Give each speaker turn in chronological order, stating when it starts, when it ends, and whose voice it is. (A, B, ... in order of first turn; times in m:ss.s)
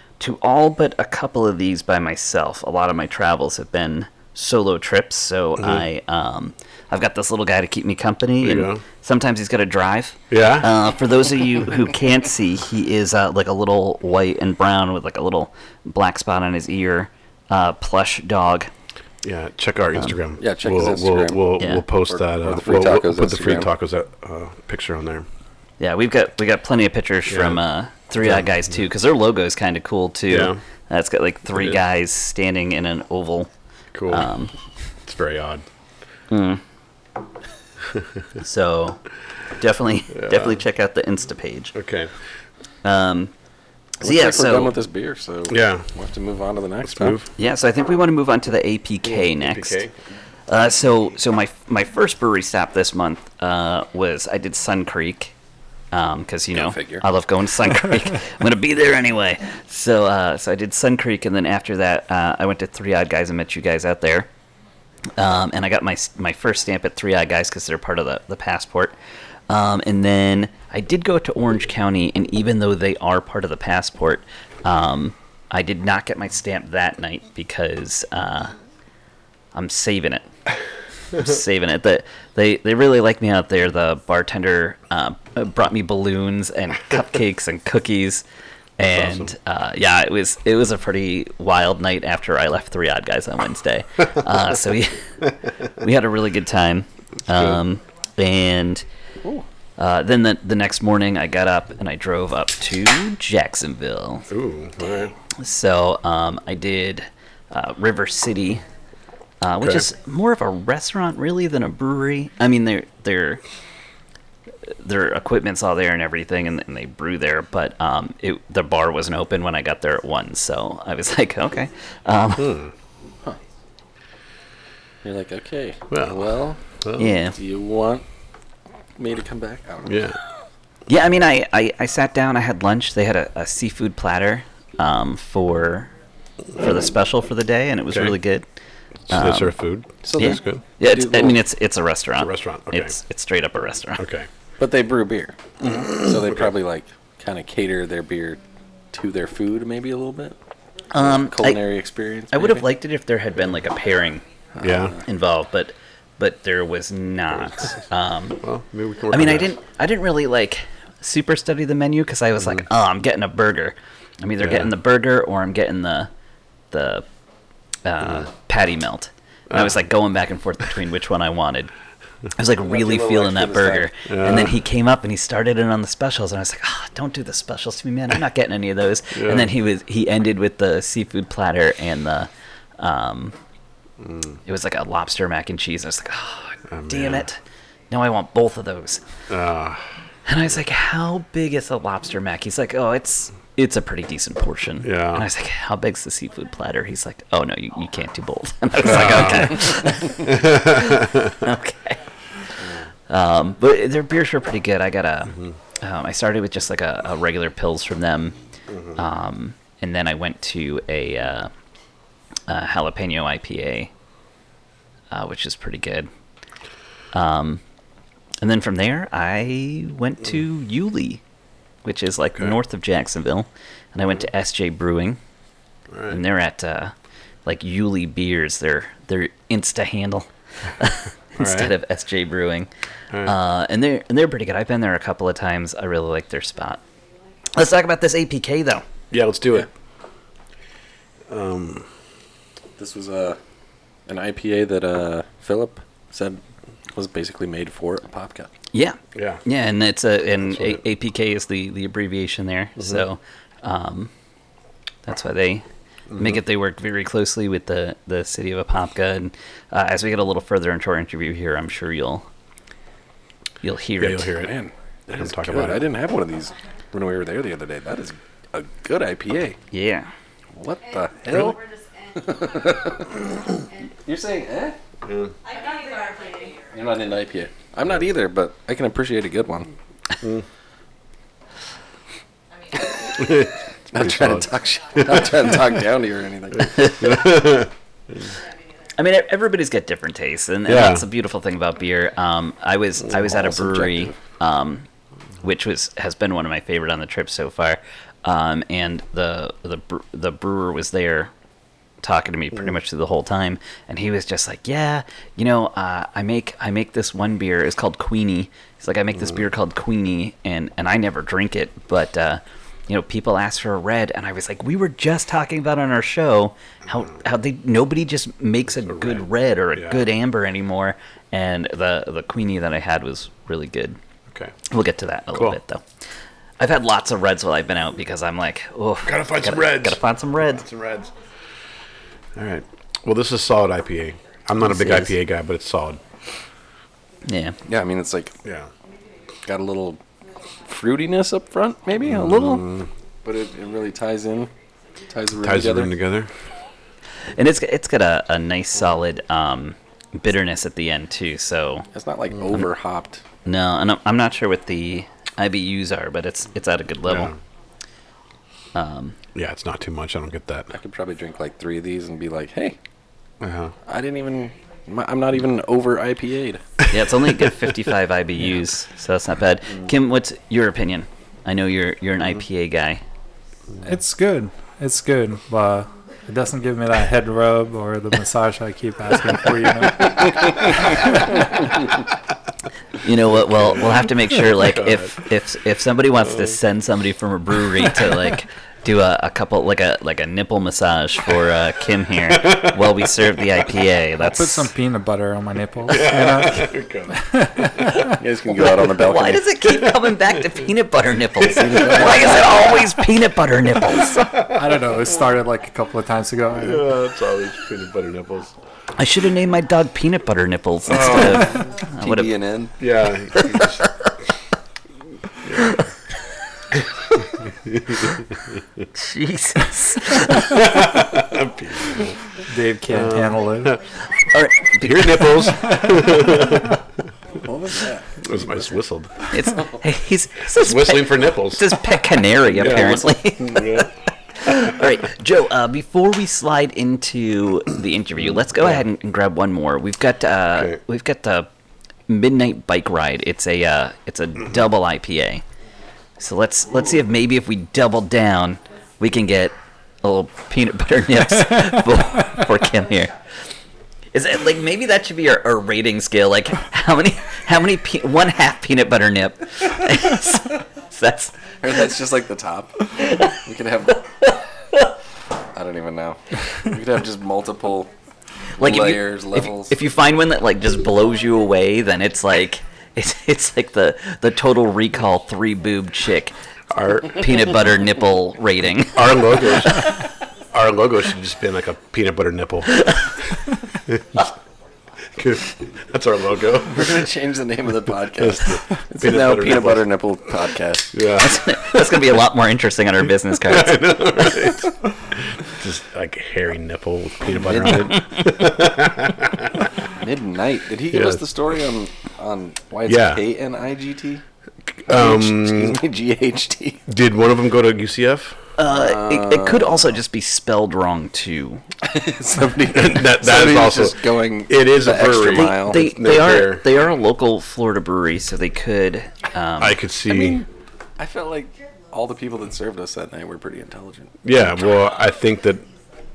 0:00.2-0:18.7 A
0:05.6-0:05.9 B
0:08.4-0:08.8 B
0:10.3-0:10.7 B
0:19.2-0:25.2 B
0:20.4-0:23.7 C
0:21.6-0:21.8 A
0:25.8-0:33.5 A
0:27.3-0:27.6 B
0:28.2-0:28.8 B
0:30.3-0:30.6 B
0:31.5-0:31.8 B
0:33.9-0:34.3 B
0:34.1-0:34.5 A
0:35.0-0:35.6 B
0:36.3-0:36.6 A
0:38.4-0:39.0 A
0:39.6-0:41.7 A
0:40.1-0:40.6 B
0:41.7-0:42.1 B
0:42.8-0:43.3 A
0:44.0-0:47.2 C
0:44.0-0:44.7 A
0:45.5-0:45.9 B
0:46.8-0:47.3 B
0:47.4-0:49.9 A
0:49.0-0:49.9 B
0:50.5-0:55.3 A
0:55.9-1:04.3 A
0:56.5-0:57.0 C
1:05.2-1:08.9 A
1:09.5-1:18.5 A
1:19.5-1:20.3 A
1:21.1-1:28.2 A
1:28.8-1:35.0 A
1:28.9-1:29.3 B
1:35.8-1:38.8 A
1:39.8-1:44.3 A
1:44.3-1:45.1 B
1:44.8-1:48.6 A
1:49.4-1:53.4 A
1:49.6-1:49.9 B
1:54.8-2:02.7 A
2:02.4-2:02.7 B
2:05.0-2:06.6 C
2:05.9-2:06.3 B
2:06.8-2:07.1 B
2:07.0-2:07.4 A
2:07.3-2:08.0 C
2:09.0-2:10.0 C
2:09.8-2:10.2 B
2:10.9-2:15.9 A
2:16.6-2:18.4 A
2:17.9-2:18.2 B
2:19.1-2:20.6 B
2:19.1-2:19.6 A
2:20.0-2:21.4 C
2:20.2-2:24.0 A
2:22.2-2:23.0 B
2:24.0-2:24.3 B
2:24.6-2:25.4 C
2:25.6-2:26.5 B
2:25.9-2:28.4 C
2:28.9-2:30.4 C
2:30.9-2:31.8 A
2:31.0-2:32.7 C
2:32.3-2:34.2 A
2:34.6-2:35.0 B
2:34.7-2:35.0 C
2:35.0-2:38.4 A
2:38.4-2:39.5 B
2:39.1-2:46.1 A
2:44.4-2:44.7 B
2:46.7-2:47.0 A
2:47.8-2:51.7 A
2:49.5-2:49.8 B
2:52.3-3:03.4 A
2:52.6-2:53.9 C
2:54.0-2:54.6 B
2:59.1-2:59.5 B
3:04.0-3:04.4 B
3:04.4-3:09.0 A
3:06.7-3:07.3 B
3:09.3-3:09.8 B
3:10.2-3:22.0 A
3:14.8-3:15.2 B
3:18.8-3:21.3 B
3:23.1-3:28.4 A
3:28.7-3:29.0 B
3:28.9-3:31.5 A
3:32.5-3:33.9 A
3:35.1-3:36.1 A
3:37.1-3:37.6 A
3:38.4-3:41.2 A
3:41.8-3:45.2 A
3:45.9-3:46.2 B
3:46.1-3:46.9 A
3:47.4-3:50.3 A
3:50.8-3:52.7 A
3:51.4-3:51.7 B
3:53.2-3:56.8 A
3:57.5-3:58.8 A
3:59.1-3:59.7 B
4:01.3-4:01.9 B
4:02.8-4:03.4 C
4:04.1-4:06.4 C
4:06.9-4:08.5 C
4:08.7-4:14.1 A
4:09.1-4:09.4 B
4:15.0-4:15.6 A
4:16.1-4:16.4 B
4:16.2-4:22.2 A
4:23.6-4:24.3 A
4:24.0-4:24.6 B
4:24.4-4:29.6 C
4:25.1-4:25.9 B
4:29.7-4:30.1 A
4:30.6-4:31.6 C
4:30.8-4:33.0 D
4:31.3-4:31.5 B
4:32.2-4:33.2 C
4:34.0-4:34.8 C
4:35.0-4:35.3 B
4:35.4-4:37.1 D
4:36.6-4:39.7 C
4:42.5-4:43.4 D
4:43.2-4:44.5 B
4:43.9-4:47.0 C
4:46.8-4:47.7 B
4:49.0-4:54.8 A
4:50.7-4:51.0 B
4:53.1-4:54.2 C
4:55.4-5:01.3 A
5:02.0-5:24.0 A
5:19.8-5:20.0 B
5:24.7-5:25.8 A
5:26.6-5:30.6 A
5:29.1-5:30.0 B
5:30.6-5:31.1 B
5:32.4-5:36.0 B
5:34.7-5:35.1 A
5:37.2-5:37.5 A
5:37.6-5:38.4 C
5:39.4-5:40.0 C
5:40.4-5:40.6 D
5:40.6-5:42.7 C
5:42.5-5:42.8 B
5:43.2-5:44.5 C
5:45.1-5:46.0 C
5:45.4-5:46.3 B
5:47.3-5:51.8 A
5:51.9-5:53.2 C
5:53.4-5:57.3 A
5:58.7-5:59.1 A
5:59.3-6:00.7 B
6:00.7-6:02.8 C
6:03.4-6:03.7 B
6:03.8-6:06.6 C
6:04.5-6:04.8 D
6:06.9-6:13.0 A
6:13.8-6:21.2 E
6:23.0-6:34.6 A
6:34.2-6:38.0 E
6:35.9-6:37.2 B
6:38.1-6:39.5 C
6:39.1-6:44.2 A
6:41.4-6:42.6 C
6:44.5-6:46.9 E
6:46.6-6:48.5 B
6:49.0-6:52.3 A
6:51.1-6:52.8 C
6:52.8-6:53.7 B
6:59.0-7:00.4 A
7:01.2-7:02.1 B
7:02.5-7:03.8 E
7:04.3-7:05.2 A
7:04.9-7:06.7 B
7:07.4-7:08.1 C
7:08.2-7:09.1 B
7:09.3-7:13.8 A
7:10.6-7:11.6 B
7:12.6-7:13.8 B
7:14.4-7:21.5 A
7:22.1-7:25.4 A
7:26.2-7:33.1 A
7:34.1-7:41.3 A
7:41.6-7:44.1 C
7:45.5-7:47.9 C
7:48.6-7:49.9 C
7:48.6-7:56.3 A
7:51.0-7:51.9 D
7:57.2-7:58.9 A
7:59.0-7:59.8 B
8:00.6-8:02.6 B
8:06.0-8:06.8 B
8:06.7-8:10.9 C
8:09.0-8:09.7 B
8:11.2-8:13.7 A
8:13.7-8:14.5 B
8:15.6-8:18.6 B
8:17.3-8:18.0 C
8:19.9-8:24.2 C
8:24.9-8:26.8 C
8:25.0-8:25.3 B
8:27.1-8:28.2 B
8:28.6-8:31.6 A
8:28.7-8:29.9 C
8:31.8-8:35.9 C
8:32.8-8:33.9 B
8:34.6-8:36.6 B
8:35.4-8:39.7 A
8:39.7-8:40.3 B
8:41.0-8:44.2 C
8:44.4-8:45.0 B